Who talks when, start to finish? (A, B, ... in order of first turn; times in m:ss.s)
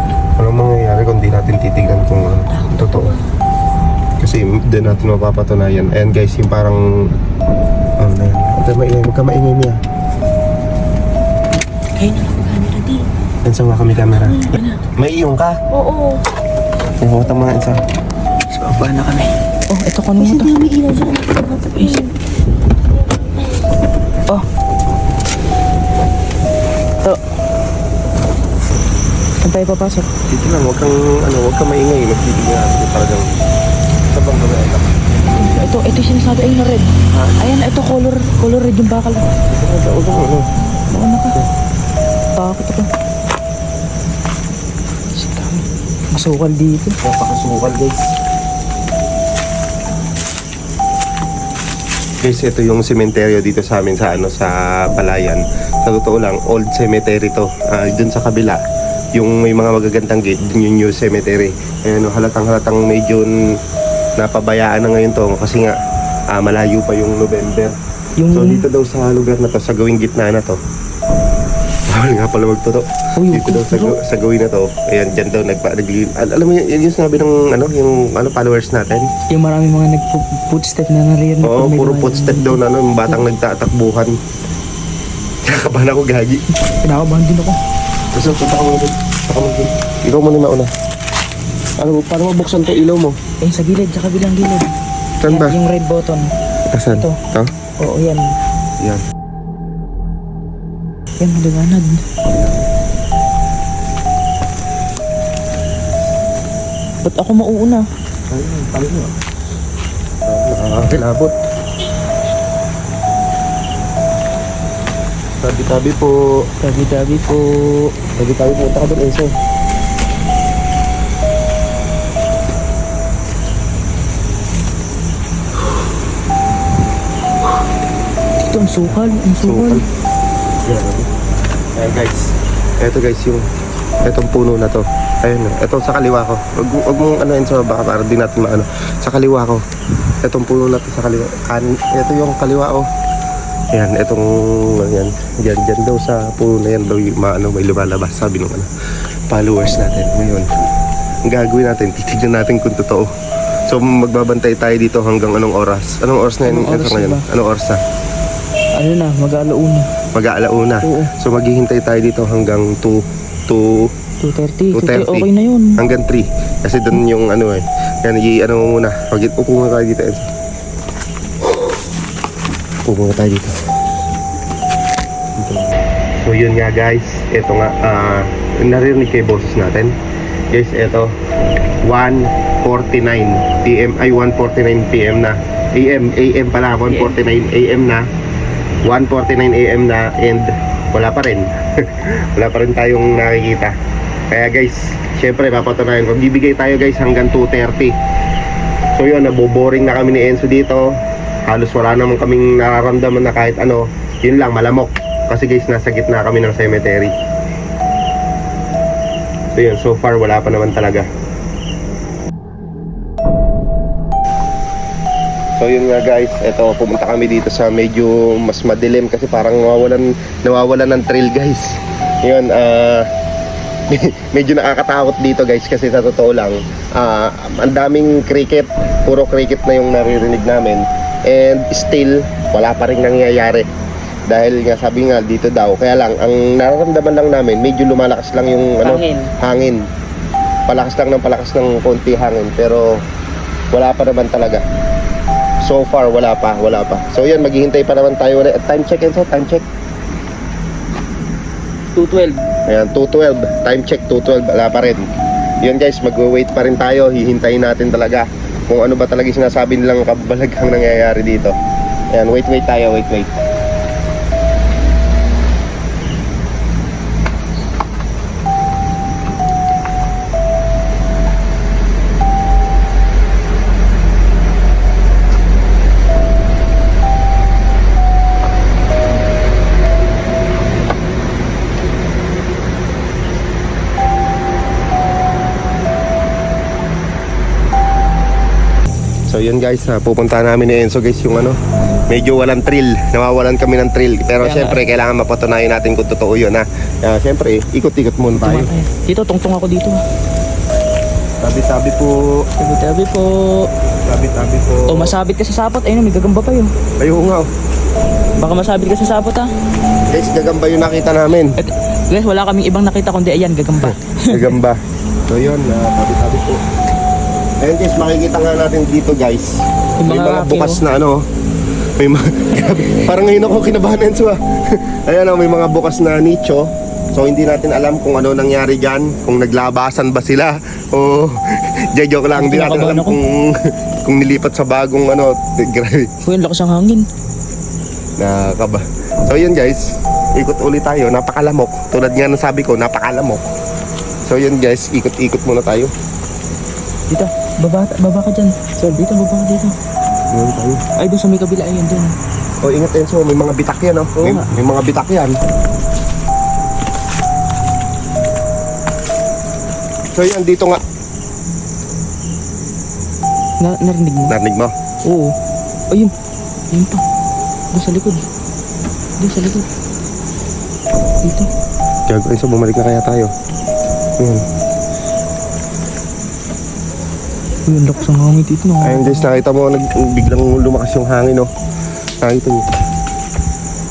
0:00.4-0:03.1 A
0:02.5-0:03.2 B
0:04.2-0:07.1 A
0:08.0-0:09.8 A
0:12.0-0:13.0 B
0:13.4-0:14.4 A
0:14.1-0:14.6 B
0:15.0-0:15.6 A
0:15.7-0:16.2 B
0:17.0-0:17.8 A
0:18.5-0:20.5 C
0:20.2-0:22.2 B
0:21.8-0:22.0 C
0:23.0-0:23.7 B
0:29.4-0:30.1 C
0:30.3-0:33.3 A
0:34.1-0:34.9 A
0:35.2-0:39.3 C
0:37.1-0:37.4 A
0:39.5-0:40.5 A
0:40.9-0:41.4 C
0:42.4-0:42.9 C
0:45.2-0:47.0 C
0:47.0-0:48.0 A
0:52.2-0:58.6 A
0:59.2-1:03.3 A
1:04.2-1:05.8 A
1:06.3-1:07.7 A
1:08.2-1:08.6 C
1:08.3-1:10.6 A
1:11.9-1:19.1 A
1:13.2-1:14.0 C
1:19.3-1:23.2 C
1:21.4-1:24.2 A
1:25.4-1:26.4 A
1:26.7-1:27.6 C
1:28.1-1:30.7 A
1:31.8-1:33.2 A
1:33.4-1:34.7 C
1:35.2-1:35.6 A
1:35.2-1:36.3 C
1:36.7-1:37.5 A
1:37.8-1:38.2 C
1:41.2-1:42.0 C
1:42.3-1:42.6 A
1:47.0-1:47.8 C
1:48.3-1:49.1 A
1:50.3-1:51.3 A
1:55.4-1:56.2 A
1:56.6-1:57.9 C
1:58.2-1:59.3 A
2:08.4-2:09.8 C
2:08.8-2:09.8 A
2:10.7-2:11.1 A
2:11.8-2:13.4 A
2:14.0-2:19.6 A
2:20.2-2:22.9 A
2:23.7-2:28.7 A
2:29.3-2:30.5 A
2:31.3-2:33.1 A
2:33.7-2:37.8 A
2:36.5-2:37.2 C
2:38.8-2:39.9 C
2:40.2-2:43.9 A
2:40.8-2:41.1 C
2:44.2-2:45.8 C
2:44.7-2:50.3 A
2:52.8-2:53.5 A
2:55.4-2:55.7 A
2:56.2-3:00.0 A
3:00.5-3:01.1 A
3:01.8-3:08.1 A
3:06.9-3:07.2 C
3:08.8-3:13.7 A
3:14.3-3:17.9 A
3:19.0-3:20.9 A
3:21.5-3:27.1 A
3:29.6-3:31.1 A
3:35.6-3:43.1 A
3:43.9-3:53.7 A
3:54.3-3:59.9 A
3:58.8-3:59.3 C
4:00.7-4:02.9 A
4:03.7-4:04.6 A
4:05.6-4:09.6 A
4:12.0-4:12.4 C
4:12.7-4:15.1 A
4:15.6-4:21.5 A
4:22.1-4:23.3 A
4:49.3-4:58.7 A
4:54.4-4:54.8 C
4:58.4-5:00.0 C
5:01.4-5:02.3 A
5:02.6-5:03.7 C
5:04.0-5:05.1 A
5:04.9-5:06.7 C
5:07.0-5:07.5 A
5:08.4-5:09.5 C
5:10.1-5:11.6 A
5:11.6-5:14.5 C
5:13.8-5:16.6 A
5:17.6-5:21.2 A
5:20.0-5:20.8 C
5:22.0-5:36.1 A
5:32.3-5:33.2 C
5:36.2-5:37.0 C
5:38.2-5:39.8 A
5:40.4-5:43.5 A
5:44.3-5:45.9 A
5:47.1-5:49.7 C
5:50.3-5:50.8 A
5:51.0-5:52.2 C
5:52.6-5:55.4 A
5:54.2-5:54.5 C
6:00.2-6:00.8 A
6:03.6-6:04.4 C
6:04.3-6:04.7 A
6:05.1-6:05.3 C
6:06.7-6:07.0 C
6:07.7-6:08.2 C
6:09.2-6:09.7 C
6:11.2-6:11.5 C
6:12.1-6:13.3 A
6:14.2-6:14.4 A
6:17.7-6:19.3 C
6:18.8-6:21.5 A
6:22.2-6:22.6 A